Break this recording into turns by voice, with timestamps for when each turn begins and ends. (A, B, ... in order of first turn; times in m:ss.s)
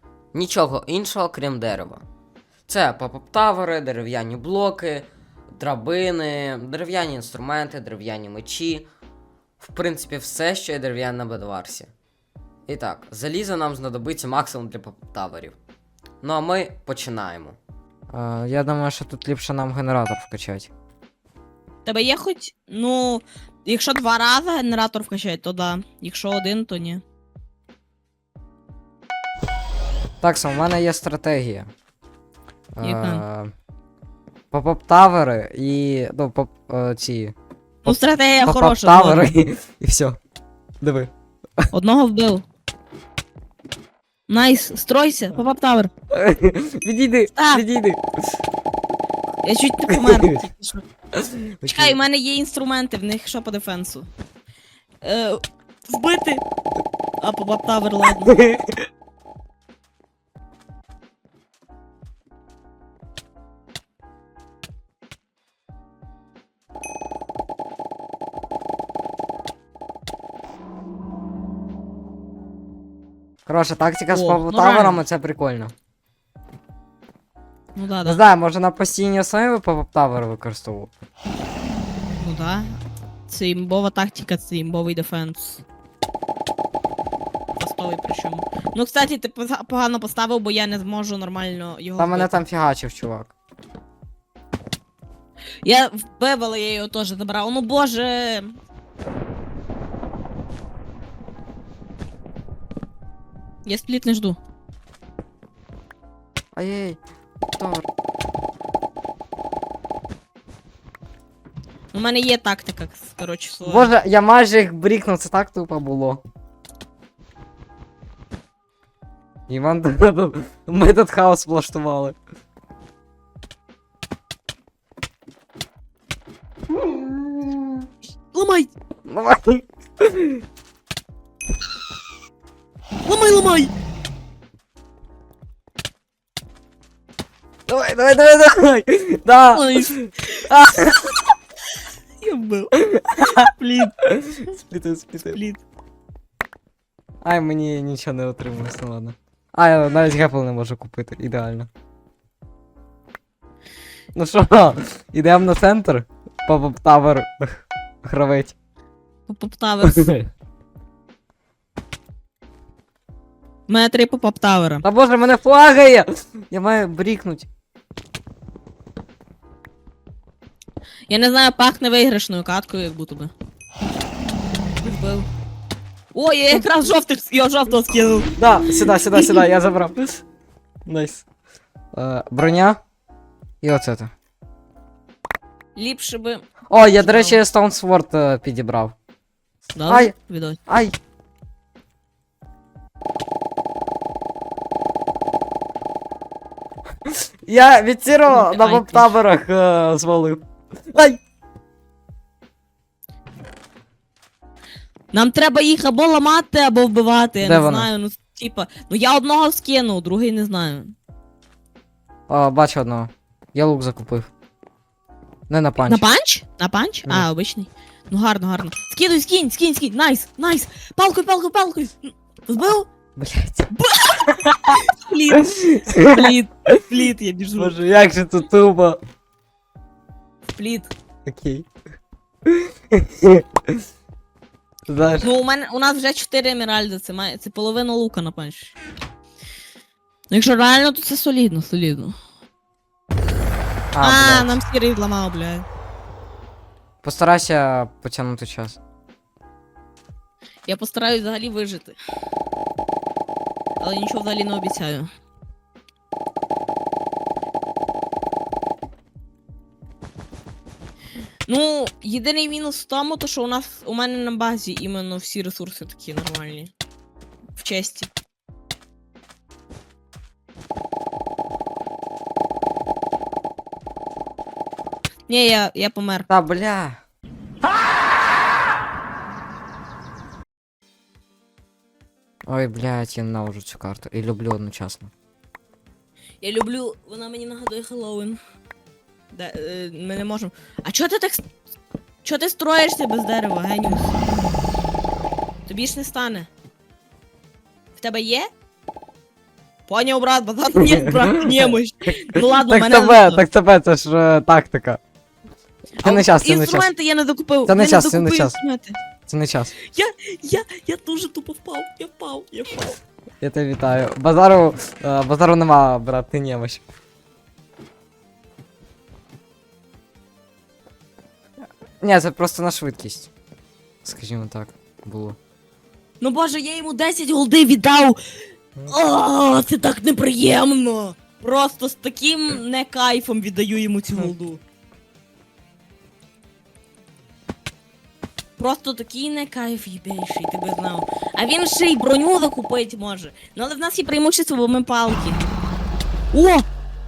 0:00.3-0:02.0 A
0:02.7-0:08.9 A
0:09.6-0:11.9 A
0:12.7-0:15.6 A
0:16.2-0:17.6 A
0:18.1-0:20.7 B
0:21.8-0:27.0 C
0:30.2-0:31.7 B
0:32.8-0:33.5 B
0:32.8-0:33.2 C
0:34.5-0:40.2 B
0:37.8-0:39.3 C
0:40.8-0:41.7 B
0:41.7-0:42.4 C
0:44.3-0:45.9 C
0:46.1-0:48.0 B
0:47.3-0:47.6 C
0:49.4-0:50.8 C
0:51.2-0:52.0 B
0:51.6-0:54.1 C
0:55.0-0:56.4 C
0:57.2-0:58.4 C
1:13.5-1:15.7 B
1:14.1-1:15.0 C
1:17.8-1:18.2 C
1:18.0-1:20.9 B
1:22.2-1:22.8 C
1:23.3-1:25.6 C
1:27.6-1:32.4 C
1:32.0-1:33.3 B
1:35.6-1:38.5 C
1:43.7-1:44.4 C
1:46.6-1:47.0 B
1:47.6-1:47.9 B
1:51.9-1:53.9 C
1:53.6-1:56.2 B
1:59.5-2:02.2 B
2:06.8-2:07.7 B
2:08.3-2:08.7 C
2:09.0-2:10.4 B
2:13.0-2:13.7 C
2:17.7-2:21.2 B
2:19.5-2:20.5 C
2:22.2-2:22.8 C
2:22.8-2:23.4 B
2:23.3-2:23.9 C
2:24.0-2:25.4 B
2:25.3-2:25.6 C
2:27.2-2:31.7 B
2:34.1-2:38.5 B
2:39.3-2:40.1 C
2:43.7-2:44.8 C
2:44.8-2:47.5 B
2:51.1-2:53.3 C
2:54.8-2:55.3 C
2:56.1-2:58.3 C
2:58.4-3:00.2 B
3:00.8-3:01.2 B
3:01.9-3:02.8 B
3:03.6-3:04.1 B
3:05.8-3:07.4 C
3:06.7-3:08.9 B
3:09.7-3:10.6 C
3:09.9-3:10.1 B
3:10.7-3:11.0 B
3:17.1-3:21.2 B
3:18.3-3:19.1 C
3:25.1-3:30.9 C
3:27.4-3:27.9 B
3:32.3-3:34.3 B
3:35.5-3:36.0 B
3:35.8-3:42.9 C
3:43.2-3:43.7 B
3:43.7-3:47.7 C
3:45.8-3:46.7 B
3:47.6-3:49.0 B
3:50.5-3:50.9 C
3:51.2-3:51.7 B
3:52.4-3:53.8 B
3:54.9-3:55.3 B
3:55.2-3:58.7 C
4:00.3-4:02.1 C
4:03.9-4:04.6 B
4:04.0-4:05.6 C
4:07.0-4:08.8 B
4:10.7-4:12.0 C
4:13.8-4:15.1 C
4:21.5-4:26.7 C
4:27.6-4:28.1 C
4:35.3-4:36.3 C
4:36.3-4:37.0 B
4:42.5-4:45.1 B
4:46.4-4:48.4 C
4:49.3-4:51.5 C
4:52.2-4:54.2 C
4:55.7-4:56.5 C
4:58.0-4:58.5 C
4:59.9-5:03.4 C
5:00.8-5:01.8 B
5:02.4-5:05.0 B
5:06.0-5:09.0 C
5:06.0-5:06.9 B
5:07.7-5:08.6 B
5:09.3-5:09.7 B
5:09.9-5:13.0 C
5:13.4-5:16.8 B
5:22.0-5:23.3 B
5:24.0-5:25.4 B
5:26.2-5:28.2 C
5:28.9-5:34.6 C
5:38.6-5:45.4 C
5:46.3-5:46.7 C